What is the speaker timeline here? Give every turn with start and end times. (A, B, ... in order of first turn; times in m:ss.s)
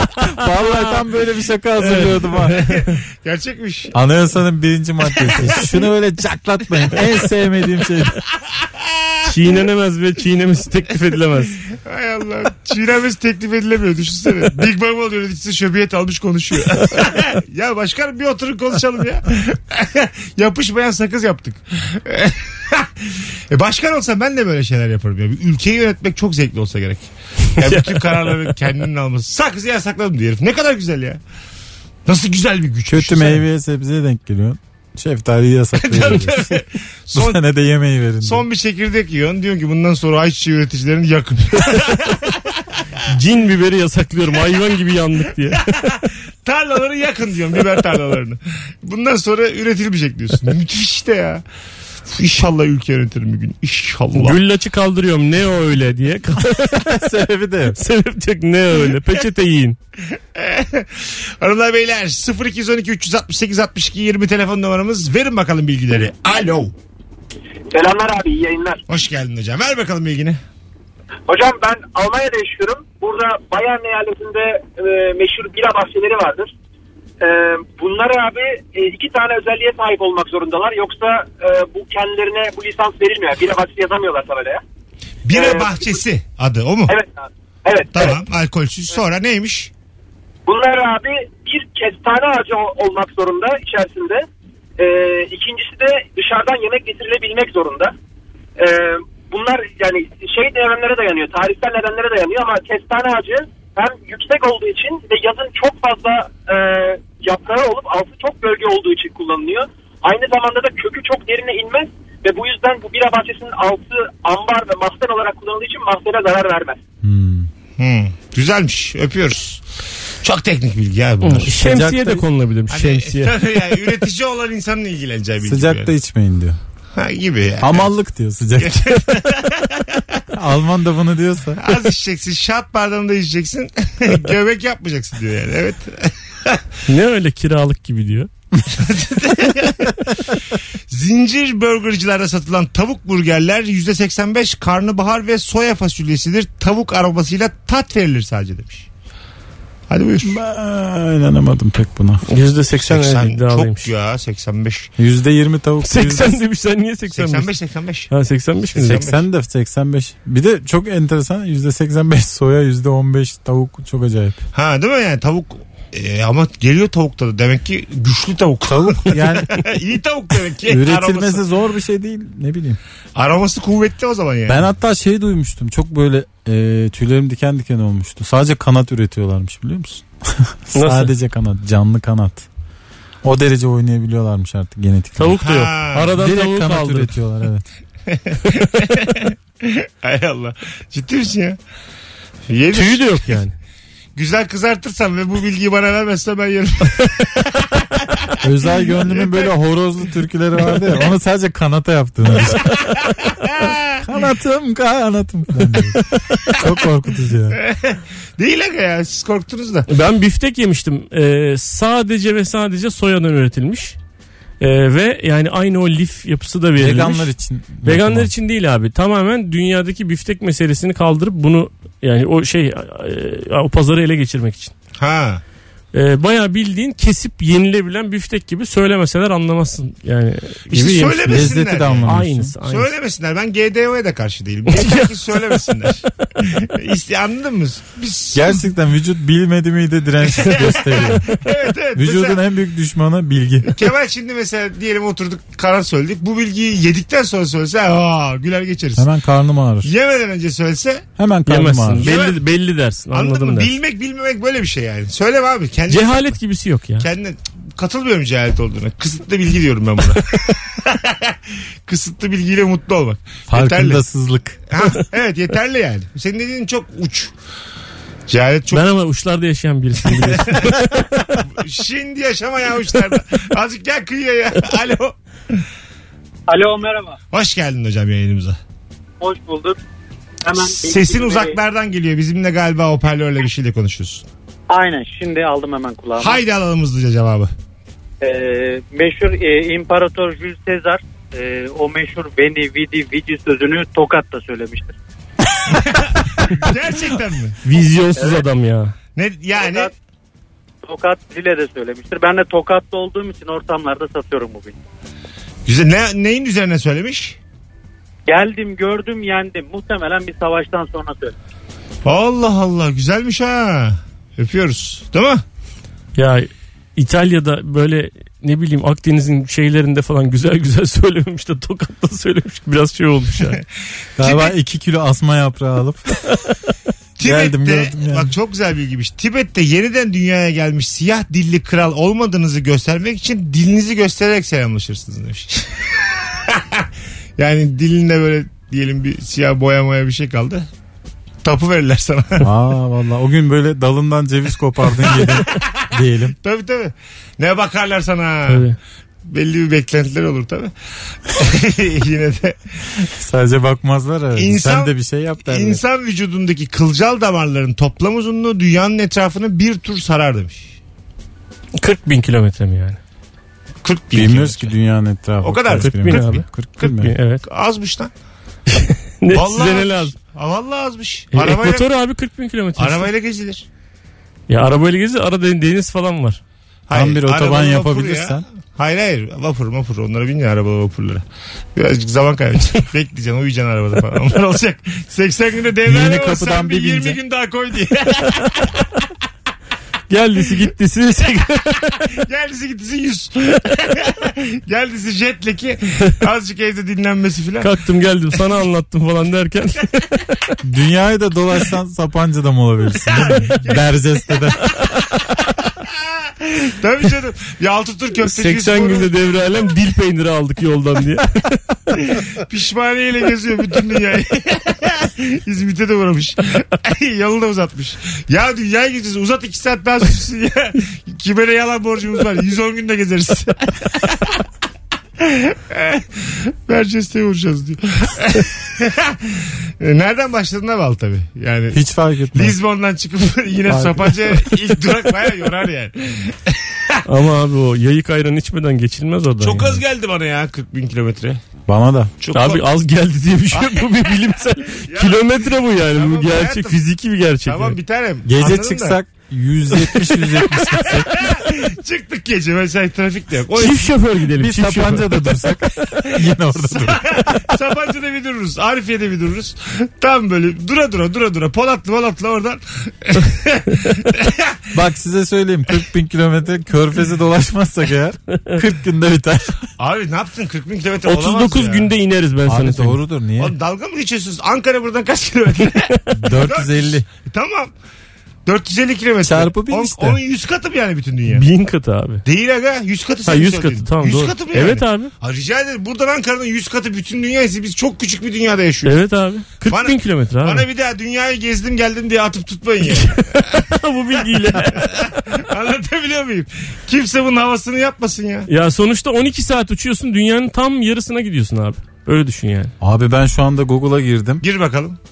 0:00.2-0:02.6 A
0:00.7-0:01.0 B
0:01.8-0:02.9 B
0:02.5-0:03.9 C
0:03.9-0:08.2 A
0:05.1-0:05.8 C
0:08.7-0:09.3 C
0:09.2-0:11.6 B
0:11.7-0:31.2 C
0:27.6-0:28.6 B
0:32.0-0:33.4 C
0:32.9-0:36.6 A
0:35.8-0:37.4 C
0:37.1-0:38.4 A
0:38.2-0:42.8 C
0:43.1-0:45.9 B
0:45.9-0:51.4 C
0:52.0-0:54.4 C
0:54.1-0:57.0 B
0:56.5-0:57.8 A
0:57.8-0:59.8 B
1:00.1-1:06.7 C
1:07.7-1:08.8 D
1:08.9-1:10.4 C
1:11.3-1:16.5 D
1:17.2-1:24.6 D
1:25.2-1:26.9 C
1:25.3-1:26.0 D
1:26.9-1:28.2 D
1:27.9-1:29.7 C
1:30.4-1:34.2 D
1:34.8-1:37.9 D
1:38.6-1:56.8 D
1:57.0-1:57.5 A
1:57.8-1:59.6 C
2:00.2-2:01.5 C
2:01.2-2:03.5 B
2:01.5-2:02.2 A
2:02.7-2:05.9 C
2:05.4-2:06.6 A
2:06.9-2:07.9 C
2:07.6-2:09.3 A
2:08.6-2:10.2 C
2:10.3-2:11.7 A
2:11.6-2:16.7 C
2:16.9-2:18.3 B
2:18.7-2:20.0 C
2:20.9-2:28.9 C
2:29.9-2:30.4 C
2:30.2-2:32.2 A
2:32.3-2:33.9 B
2:32.8-2:34.9 C
2:35.0-2:36.4 A
2:35.8-2:37.5 B
2:37.1-2:38.1 C
2:38.1-2:39.0 B
2:38.7-2:39.2 C
2:38.9-2:44.4 A
2:44.5-2:51.4 C
2:48.6-2:49.7 A
2:50.6-2:52.8 A
2:53.2-2:54.6 C
2:54.5-3:02.5 A
3:00.7-3:01.1 B
3:03.2-3:07.6 A
3:05.2-3:07.1 B
3:05.4-3:06.1 C
3:08.1-3:11.6 C
3:12.5-3:13.4 C
3:12.7-3:13.6 B
3:14.2-3:18.4 C
3:18.4-3:22.8 A
3:19.0-3:19.5 C
3:23.0-3:24.0 C
3:24.0-3:27.6 A
3:27.5-3:29.9 C
3:29.9-3:34.0 B
3:34.6-3:37.3 B
3:36.8-3:38.3 A
3:37.8-3:44.7 B
3:45.0-3:45.4 C
3:45.9-3:52.9 B
3:50.7-3:58.6 C
3:50.7-3:52.5 A
3:54.7-3:55.6 B
3:58.3-4:01.4 A
4:00.2-4:02.4 C
4:01.9-4:03.9 A
4:03.6-4:09.0 C
4:08.9-4:09.9 A
4:09.8-4:11.0 C
4:11.2-4:12.1 A
4:11.5-4:13.7 B
4:12.0-4:12.4 C
4:13.1-4:16.2 C
4:15.9-4:17.1 B
4:17.0-4:24.0 C
4:23.5-4:24.6 A
4:24.7-4:27.3 C
4:28.3-4:28.8 C
4:28.7-4:31.4 B
4:30.2-4:30.6 C
4:31.4-4:35.6 C
4:36.5-4:37.2 E
4:37.3-4:38.6 C
4:39.2-4:39.8 E
4:40.4-4:41.6 E
4:40.8-4:44.2 C
4:44.7-4:46.4 E
4:46.2-4:47.5 C
4:48.2-4:55.0 E
4:55.7-4:57.6 C
4:57.6-4:58.9 B
4:58.2-4:58.4 E
4:59.2-4:59.9 C
4:59.6-4:59.9 E
5:00.8-5:04.8 E
5:05.6-5:07.4 C
5:08.3-5:11.3 E
5:12.0-5:15.4 C
5:16.1-5:23.6 B
5:24.2-5:26.1 A
5:24.2-5:24.5 C
5:27.2-5:40.7 C
5:27.2-5:28.3 A
5:41.4-5:42.5 C
5:42.4-5:46.4 A
5:45.0-5:45.6 C
5:46.4-5:48.6 C
5:48.5-5:48.8 B
5:49.2-5:50.7 C
5:51.2-5:52.6 C
5:53.1-5:55.8 A
5:54.4-5:54.9 C
5:55.4-6:00.7 C
6:01.8-6:03.0 B
6:03.8-6:04.7 C
6:04.1-6:07.1 A
6:05.4-6:06.4 C
6:05.8-6:07.4 B
6:07.4-6:08.1 C
6:08.7-6:10.1 B
6:09.3-6:11.8 C
6:11.3-6:13.1 B
6:12.8-6:13.6 C
6:14.5-6:16.4 B
6:16.9-6:28.9 C
6:16.9-6:18.4 A
6:25.8-6:27.2 A
6:30.1-6:32.0 B
6:32.1-6:37.7 C
6:37.6-6:40.2 B
6:40.6-6:44.8 A
6:43.1-6:43.9 C
6:45.8-6:49.1 C
6:48.2-6:51.6 B
6:52.0-7:04.4 C
7:05.2-7:11.8 C
7:11.7-7:12.6 A
7:12.3-7:17.0 C
7:13.7-7:14.4 A
7:17.0-7:19.8 B
7:19.4-7:21.4 C
7:21.7-7:22.1 A
7:22.2-7:22.6 C
7:22.3-7:27.8 B
7:23.5-7:23.9 C
7:24.8-7:26.8 C
7:27.4-7:29.0 C
7:28.2-7:31.3 A
7:30.9-7:33.9 C
7:33.6-7:35.6 B
7:34.4-7:37.4 A
7:36.1-7:44.6 C
7:44.7-7:49.6 A
7:49.8-7:51.9 C
7:51.0-7:53.0 B
7:52.4-7:53.5 A
7:53.4-7:57.7 C
7:55.6-7:55.9 B
7:56.1-7:57.0 A
7:58.4-8:01.4 C
7:59.2-8:00.2 A
8:01.3-8:02.2 B
8:02.2-8:09.0 C
8:03.2-8:05.1 B
8:08.8-8:10.7 B
8:09.7-8:13.7 C
8:13.0-8:14.9 B
8:14.5-8:18.5 C
8:18.5-8:22.7 B
8:22.8-8:24.4 A
8:24.4-8:25.0 C